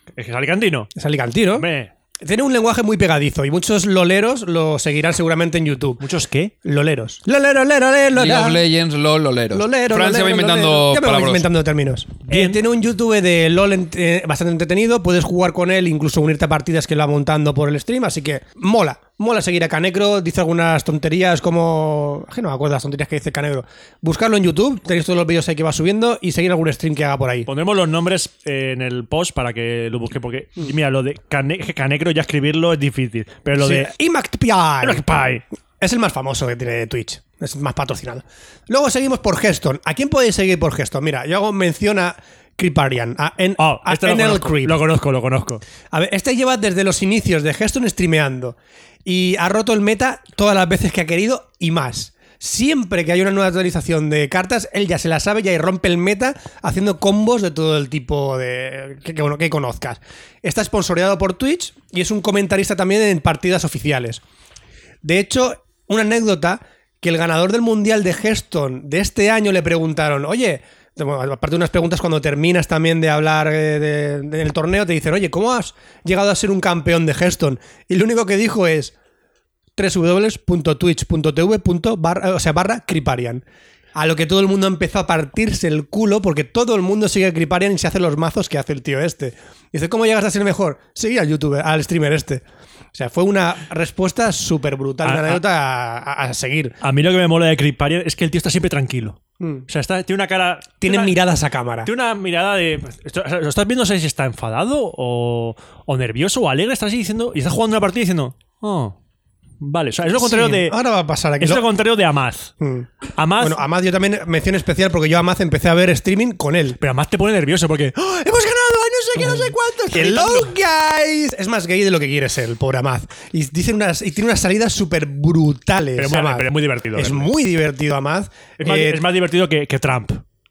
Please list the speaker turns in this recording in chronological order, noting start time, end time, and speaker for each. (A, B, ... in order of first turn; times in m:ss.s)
0:00.2-0:00.9 A
0:01.0-0:01.7 B
0:01.5-0:01.9 A
0:02.2-0:06.0 B
0:06.0-0:06.5 A
0:06.6-0:08.6 B
0:08.1-0:11.5 C
0:09.5-0:27.5 B
0:12.3-0:12.6 A
0:27.4-0:33.9 A
0:33.6-0:35.2 B
0:34.8-0:35.4 A
0:35.8-0:44.8 B
0:43.6-0:45.6 A
0:45.9-1:04.2 B
1:05.0-1:18.9 B
1:19.8-1:23.4 B
1:23.9-1:36.8 B
1:35.0-1:35.4 A
1:36.8-1:41.2 A
1:39.4-1:39.6 B
1:40.8-1:41.9 B
1:41.8-1:48.9 A
1:49.6-1:50.8 A
1:50.2-1:51.6 B
1:51.4-1:52.5 A
1:52.6-1:56.8 B
1:53.2-1:53.6 A
1:56.8-2:00.5 A
1:59.2-2:09.0 B
2:06.0-2:07.3 A
2:08.6-2:10.2 A